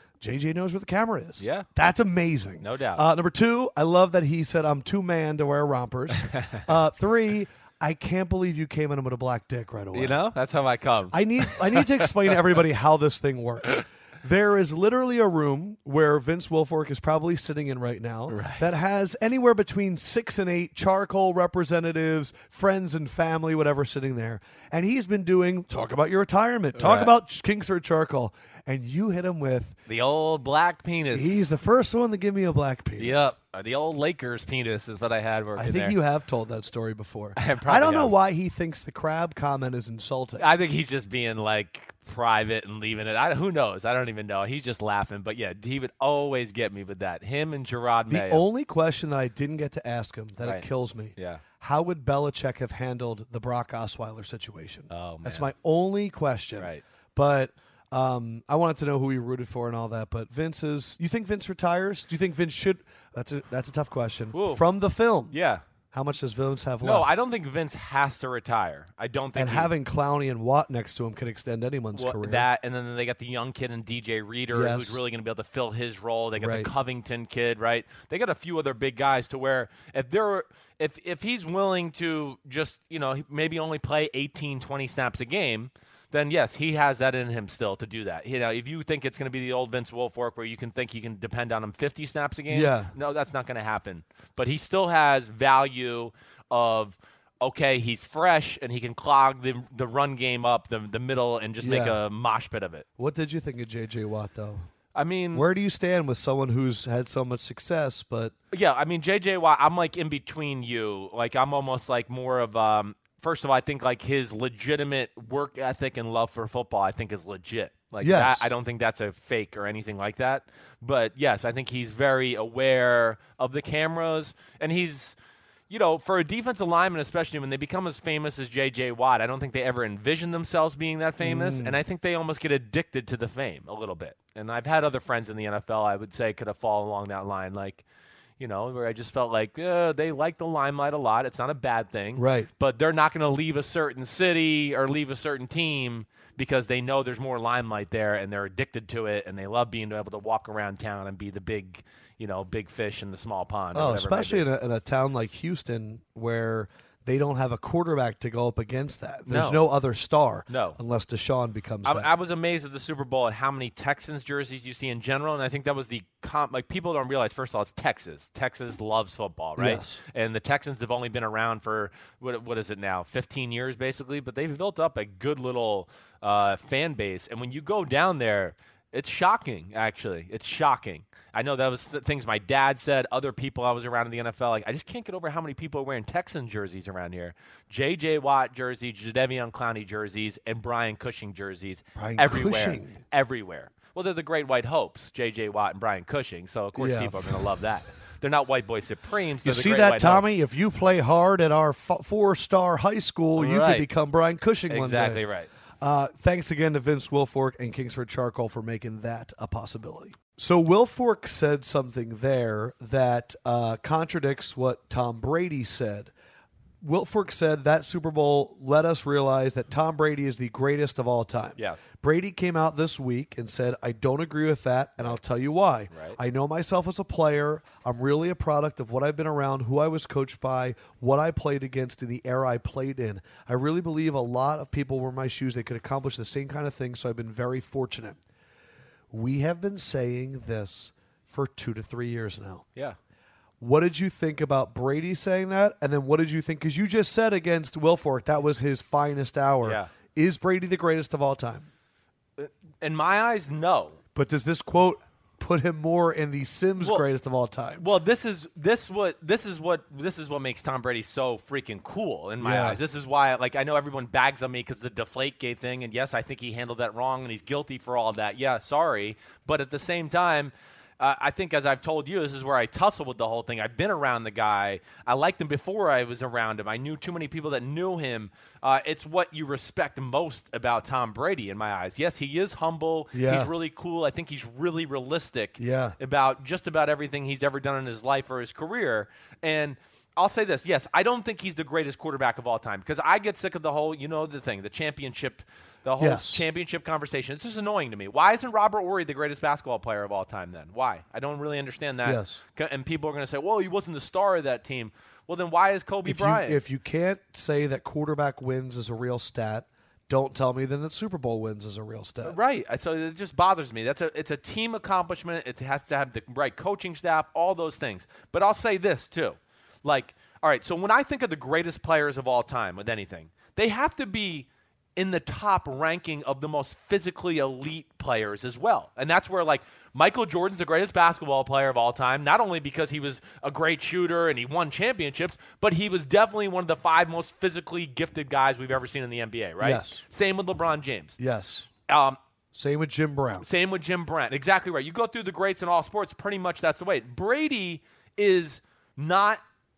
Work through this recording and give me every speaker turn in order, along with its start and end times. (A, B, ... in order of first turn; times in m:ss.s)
0:00.2-0:10.2 A
0:01.4-0:01.7 B
0:02.6-0:03.0 B
0:06.3-0:06.6 B
0:09.9-0:12.3 B
0:11.1-0:29.8 A
0:18.3-0:18.6 B
0:26.8-0:27.1 B
0:29.9-0:31.4 B
0:31.1-0:33.3 A
0:33.0-0:36.0 B
0:35.6-0:40.5 A
0:37.4-0:38.1 B
0:40.4-0:48.4 B
0:48.1-1:05.4 A
0:50.4-0:51.4 B
0:54.9-0:55.5 B
1:04.3-1:04.6 B
1:05.3-1:05.6 B
1:05.9-1:07.1 A
1:06.8-1:09.7 B
1:09.3-1:12.4 A
1:11.9-1:42.8 B
1:14.5-1:15.0 A
1:16.4-1:16.7 A
1:32.5-1:32.9 A
1:41.6-1:42.0 A
1:43.0-1:44.6 A
1:44.9-1:45.4 B
1:45.3-1:48.3 A
1:48.5-2:05.2 B
1:58.0-1:58.5 A
2:05.7-2:17.8 B
2:11.2-2:11.8 A
2:18.4-2:34.4 B
2:22.2-2:22.5 A
2:33.7-2:42.1 A
2:39.3-2:39.6 B
2:40.5-2:40.8 B
2:41.8-3:20.2 B
2:49.6-2:50.0 A
3:12.0-3:13.0 A
3:16.8-3:17.3 A
3:19.4-3:25.2 A
3:23.4-3:23.9 B
3:24.7-3:25.5 B
3:25.8-3:36.1 A
3:36.8-3:58.2 A
3:45.9-3:46.2 B
3:59.1-4:02.6 A
4:03.6-4:11.7 A
4:09.6-4:09.9 B
4:12.4-4:14.0 B
4:14.1-4:17.8 A
4:16.8-4:17.0 B
4:17.8-5:06.6 B
4:22.4-4:22.8 A
4:43.1-4:43.5 A
4:45.6-4:45.9 A
4:56.0-4:56.4 A
5:02.0-5:02.4 A
5:06.0-5:12.4 A
5:12.2-5:41.2 B
5:39.6-5:40.0 A
5:41.2-5:41.7 A
5:41.9-5:42.2 B
5:42.5-5:43.4 A
5:43.4-5:49.4 B